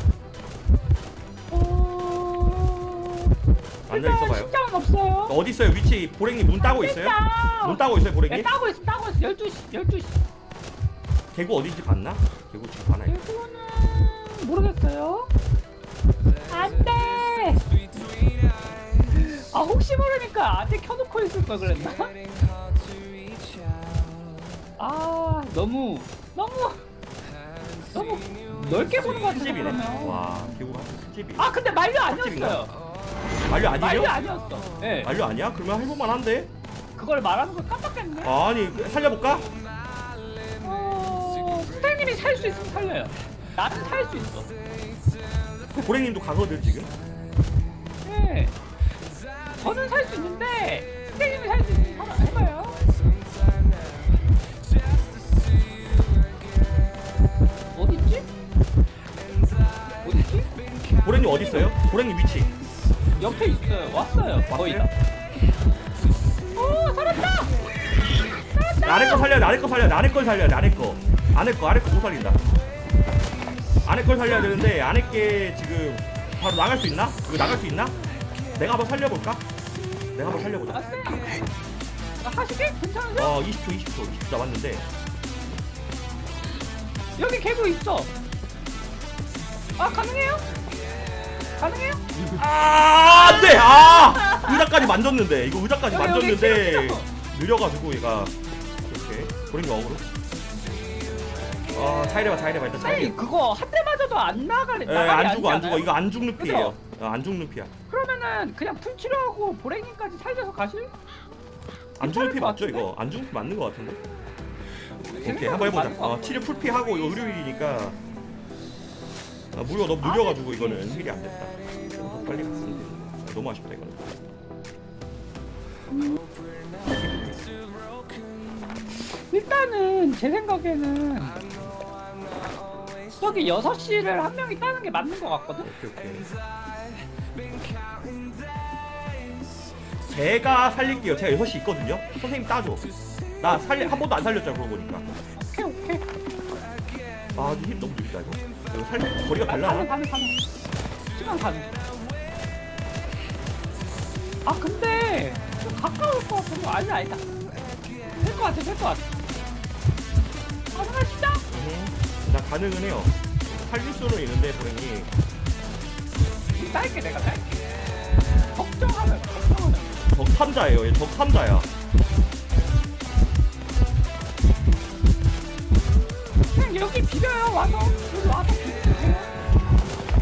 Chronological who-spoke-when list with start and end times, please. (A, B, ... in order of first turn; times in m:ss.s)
0:01.5-0:03.3 A
0:03.9-0:04.5 B
0:03.9-0:05.4 A
0:05.3-0:08.5 B
0:06.6-0:10.2 A
0:11.3-0:13.2 B
0:13.1-0:15.3 A
0:16.5-0:17.7 A
0:19.1-0:22.2 A
0:24.8-0:26.8 A
0:27.9-0:30.3 A
0:28.9-0:31.5 B
0:31.4-0:32.7 A
0:32.0-0:32.7 B
0:33.5-0:34.2 B
0:33.8-0:35.1 A
0:35.0-0:36.5 B
0:37.0-0:38.3 A
0:38.2-0:39.5 B
0:40.6-0:44.5 A
0:45.8-0:46.9 B
0:48.0-0:48.5 A
0:49.6-0:52.8 A
0:57.8-0:58.3 A
1:00.0-1:00.5 A
1:01.0-1:02.5 B
1:03.2-1:04.9 A
1:04.5-1:04.9 B
1:06.6-1:07.5 A
1:08.5-1:09.6 A
1:08.8-1:12.4 B
1:13.8-1:18.0 B
1:18.6-1:19.4 B
1:20.1-1:20.8 B
1:20.7-1:21.4 A
1:22.2-1:23.4 A
1:23.2-1:24.9 B
1:27.2-1:28.1 A
1:29.8-1:30.4 A
1:31.6-1:32.0 A
1:32.2-1:40.0 B
1:33.1-1:34.9 A
1:35.9-1:37.1 A
1:41.7-1:43.2 B
1:42.8-1:46.8 A
1:44.9-1:47.7 B
1:47.9-1:50.9 A
1:52.0-1:54.0 B
1:52.0-1:52.9 A
1:55.0-1:56.5 A
1:55.2-1:58.0 B
1:59.5-2:04.1 B
2:00.0-2:00.9 A
2:05.9-2:06.2 A
2:06.9-2:07.4 B
2:09.2-2:11.4 A
2:13.2-2:15.7 A
2:15.6-2:16.3 B
2:20.0-2:22.9 B
2:23.4-2:25.0 B
2:23.4-2:24.0 A
2:25.4-2:26.0 A
2:27.4-2:29.9 B
2:29.5-2:30.4 A
2:31.2-2:31.8 A
2:34.4-2:37.3 A
2:38.2-2:39.0 A
2:40.7-2:41.4 A
2:41.5-2:45.1 B
2:46.6-2:47.4 A
2:48.5-2:50.0 A
2:50.1-2:51.7 B
2:56.5-2:59.3 A